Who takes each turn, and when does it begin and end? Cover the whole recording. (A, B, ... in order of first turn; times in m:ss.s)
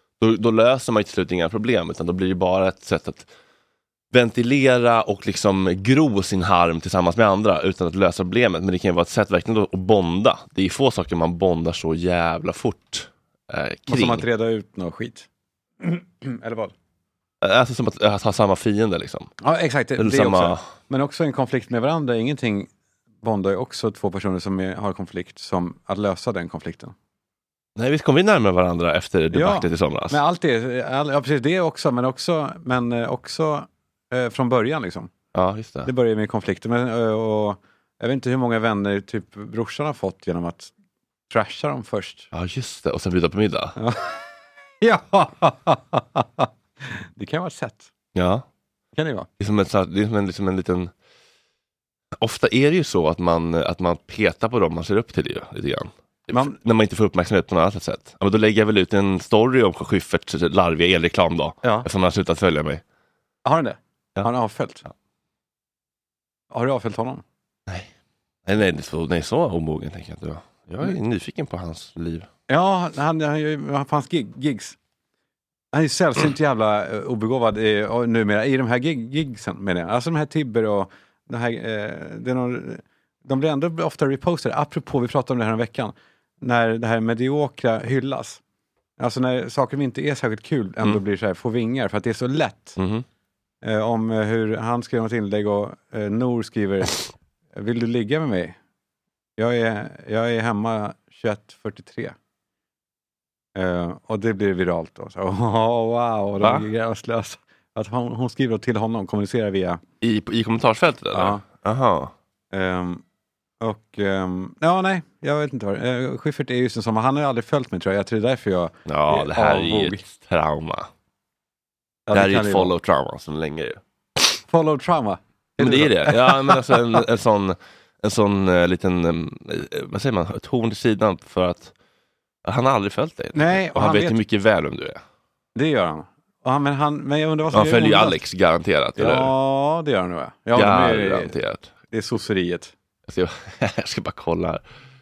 0:00.2-0:03.3 A
0:04.1-0:14.2 A
0:13.9-0:15.3 B
0:15.8-0:16.7 B
0:17.4-0:19.3 A
0:19.4-0:22.7 B
0:20.0-0:20.6 A
0:23.2-0:26.9 B
0:27.8-0:30.2 A
0:29.3-0:35.1 B
0:35.3-0:35.9 A
0:35.8-0:40.7 B
0:41.3-0:42.3 B
0:42.3-0:43.7 A
0:43.8-0:44.2 B
0:44.8-0:47.9 B
0:48.1-0:48.4 A
0:48.9-0:49.3 B
0:49.4-0:50.9 A
0:52.2-1:02.8 A
0:56.3-0:56.6 B
1:01.6-1:01.9 B
1:03.4-1:04.8 B
1:06.5-1:07.2 B
1:08.4-1:12.3 A
1:12.5-1:14.8 B
1:15.7-1:28.4 B
1:29.0-1:32.8 B
1:32.8-1:33.0 A
1:33.6-1:38.6 B
1:39.4-1:42.1 B
1:43.5-1:49.8 B
1:46.4-1:46.7 A
1:50.0-1:52.1 A
1:51.1-1:51.4 B
1:52.5-1:53.0 B
1:53.6-2:00.0 B
1:58.8-2:00.9 A
2:02.0-2:02.7 B
2:02.1-2:03.8 A
2:04.5-2:06.7 B
2:05.6-2:11.7 A
2:12.4-2:15.0 A
2:13.3-2:14.2 B
2:15.5-2:18.2 B
2:17.5-2:19.3 A
2:19.0-2:21.3 B
2:20.5-2:21.7 A
2:21.9-2:22.7 B
2:23.1-2:24.6 A